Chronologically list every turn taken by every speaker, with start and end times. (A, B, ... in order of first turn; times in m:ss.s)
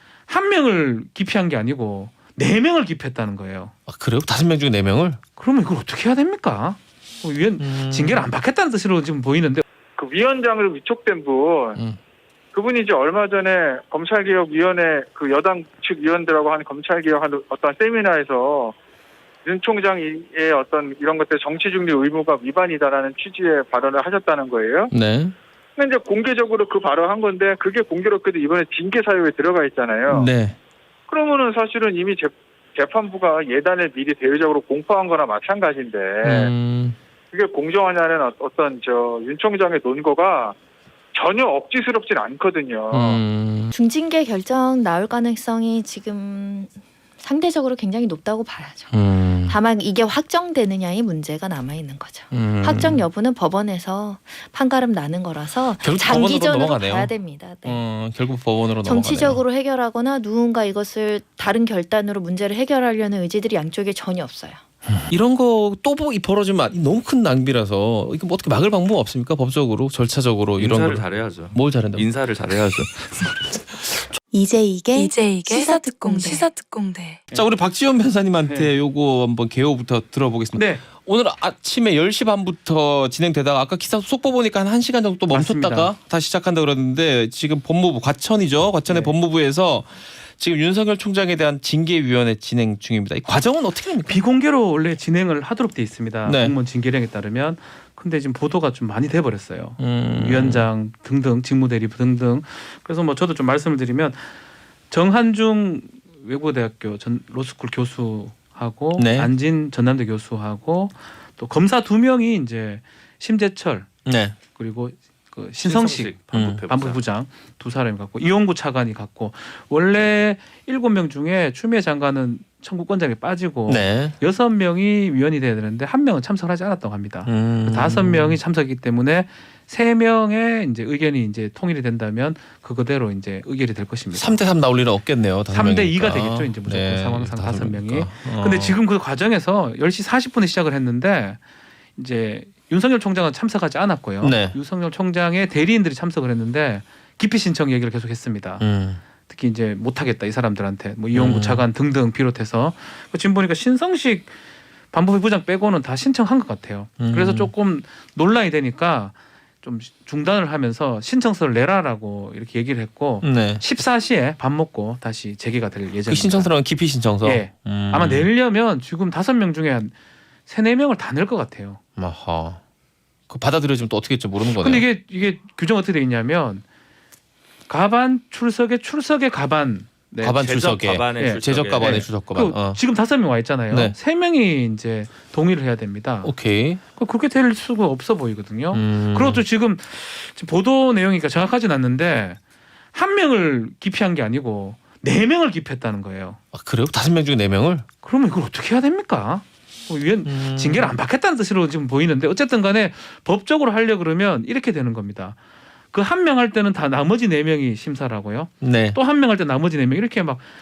0:00.3-0:03.7 A
0:03.9-0:05.2 B
0:05.4-0:09.6 A
0:07.6-0:08.2 B
0:10.0-0:11.8 C
0:12.5-0:18.7 C
0:19.4-0:24.9 C
0:24.9-0:25.3 B
0:25.8-0:30.3 C
0:30.1-0:30.6 B
0:31.1-0:36.5 C
0:36.2-0:37.0 B
0:37.3-0:40.6 C
0:41.1-0:43.2 C
0:42.9-0:43.7 B
0:43.7-0:57.8 D
0:48.9-0:49.6 B
0:52.3-0:53.0 B
0:55.8-0:57.1 B
0:57.6-0:59.4 B
0:58.8-1:04.6 D
1:04.9-1:12.1 B
1:10.6-1:14.0 E
1:14.3-1:16.4 D
1:14.8-1:17.2 F
1:17.3-1:34.2 B
1:18.4-1:18.7 A
1:20.6-1:20.8 A
1:25.3-1:25.9 A
1:28.9-1:29.1 A
1:34.1-1:44.3 A
1:36.2-1:36.5 B
1:39.8-1:40.7 B
1:44.9-1:53.9 A
1:49.0-1:49.3 B
1:54.0-1:54.4 B
1:54.5-2:14.4 A
1:55.6-1:57.0 E
1:56.3-1:56.6 B
2:03.7-2:04.2 B
2:07.2-2:08.4 B
2:14.1-2:18.8 B
2:15.5-2:21.4 A
2:22.0-2:28.6 A
2:24.2-2:24.6 B
2:28.6-2:29.0 B
2:29.3-2:34.3 A
2:31.1-2:31.6 B
2:34.9-2:46.6 A
2:37.0-2:37.5 B
2:43.2-2:43.6 B
2:46.1-2:48.3 B
2:47.2-2:49.9 A
2:50.5-2:51.8 A
2:52.0-2:52.6 B
2:53.3-2:54.8 B
2:54.4-2:56.6 A
2:57.7-3:00.4 A
3:00.2-3:02.8 B
3:00.4-3:02.0 E
3:01.2-3:06.3 A
3:03.7-3:04.0 B
3:06.2-3:06.8 B
3:07.0-3:12.4 A
3:08.7-3:09.4 B
3:12.9-3:16.4 A
3:16.5-3:17.8 B
3:18.0-3:25.4 A
3:20.2-3:20.9 B
3:25.9-3:30.5 A
3:28.6-3:29.0 B